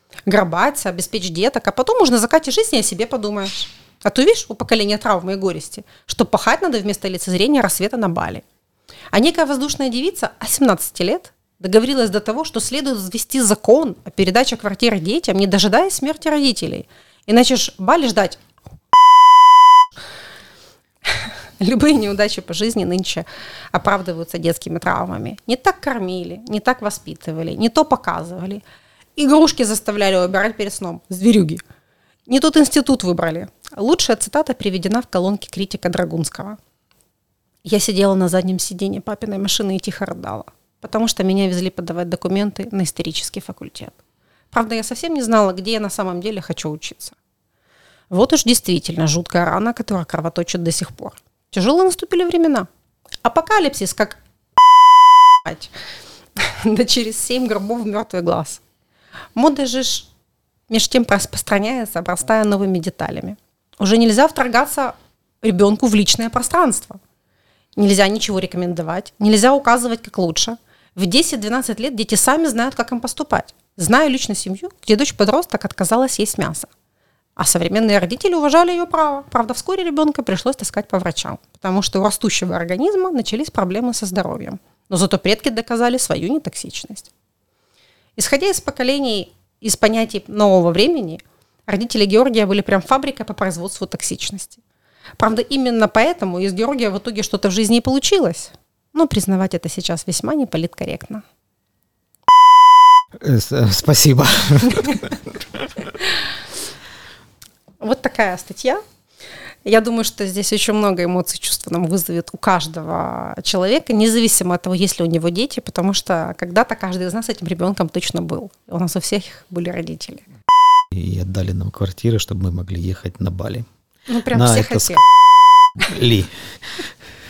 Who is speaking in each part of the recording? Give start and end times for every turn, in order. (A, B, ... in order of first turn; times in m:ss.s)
0:00.3-0:08.4 A
0:09.1-0:18.4 A
0:21.1-0:28.6 A
0:29.2-0:31.6 A
0:32.3-0:36.6 A
0:37.6-0:44.0 A
0:44.5-0:47.2 A
0:48.1-0:52.7 A
0:53.2-0:54.2 A
0:55.4-0:55.7 A
0:56.4-0:58.6 A
0:59.4-1:00.1 A
1:00.7-1:07.0 A
1:07.8-1:16.7 A
1:17.4-1:27.1 A
1:28.2-1:34.6 A
1:35.2-1:41.2 A
1:43.2-1:45.4 B
1:47.8-1:48.8 A
1:49.6-2:00.3 A
2:00.9-2:03.7 B
2:04.1-2:05.0 A
2:04.3-2:05.0 B
2:05.8-2:06.8 B